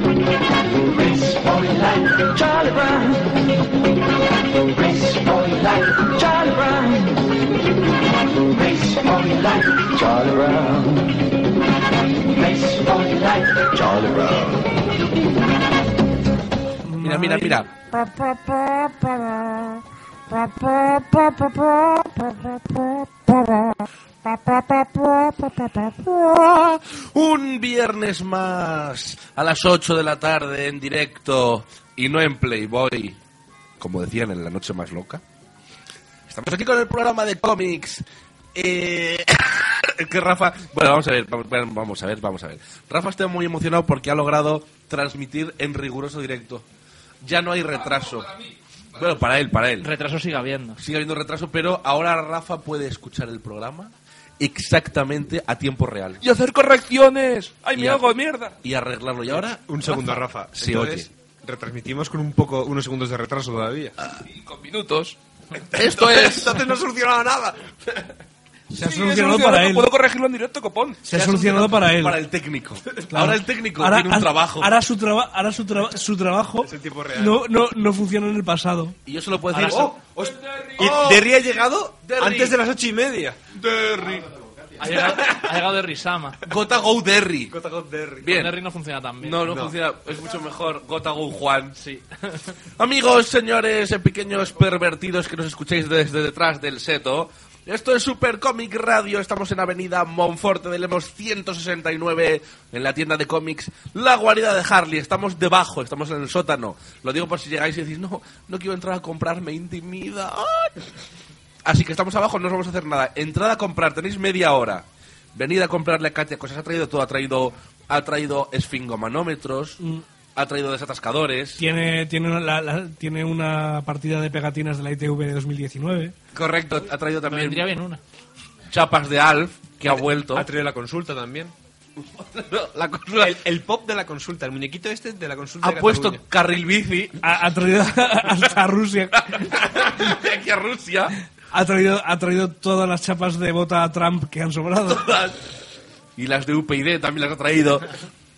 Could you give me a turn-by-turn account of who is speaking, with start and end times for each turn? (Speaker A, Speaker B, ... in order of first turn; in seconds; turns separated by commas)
Speaker A: 0.7-3.6, Speaker A: 4.5-7.5, Speaker A: 8.2-11.4, Speaker A: 12.2-14.7, Speaker B: 16.8-17.6, Speaker C: 17.0-17.7, Speaker C: 26.0-33.2, Speaker C: 33.8-35.2, Speaker C: 36.3-38.0, Speaker C: 38.5-46.6, Speaker C: 47.2-48.3, Speaker D: 47.8-48.5, Speaker C: 49.0-49.9, Speaker E: 49.8-50.8, Speaker C: 50.8-56.2, Speaker D: 56.2-58.5, Speaker C: 57.8-58.0, Speaker C: 58.6-61.1, Speaker F: 59.7-63.9, Speaker D: 64.3-65.2, Speaker C: 65.7-66.6, Speaker D: 65.9-66.2, Speaker F: 65.9-68.0, Speaker B: 68.7-69.9, Speaker D: 68.7-71.0, Speaker B: 71.0-72.2, Speaker C: 71.1-74.7, Speaker B: 73.1-79.0, Speaker F: 76.6-77.4, Speaker C: 79.0-80.0, Speaker E: 79.5-79.9, Speaker F: 79.6-83.4, Speaker D: 80.2-80.8, Speaker C: 80.8-81.3, Speaker C: 82.0-82.6, Speaker C: 83.5-84.3, Speaker E: 84.8-86.4, Speaker C: 86.4-87.5, Speaker F: 87.5-88.3, Speaker C: 88.2-88.6, Speaker E: 88.2-89.4, Speaker C: 89.2-91.8, Speaker F: 89.4-89.7, Speaker E: 91.8-92.5, Speaker C: 92.8-110.8, Speaker C: 111.6-119.8, Speaker C: 120.3-121.6, Speaker B: 121.6-126.1, Speaker F: 126.3-126.8, Speaker C: 126.4-127.7, Speaker E: 127.3-128.0, Speaker C: 128.7-130.5, Speaker F: 129.9-131.5, Speaker C: 132.0-133.4, Speaker F: 133.2-136.2, Speaker C: 135.6-137.2, Speaker B: 137.2-139.3, Speaker C: 139.1-141.2, Speaker B: 141.5-145.0, Speaker C: 144.8-145.4, Speaker C: 146.2-147.9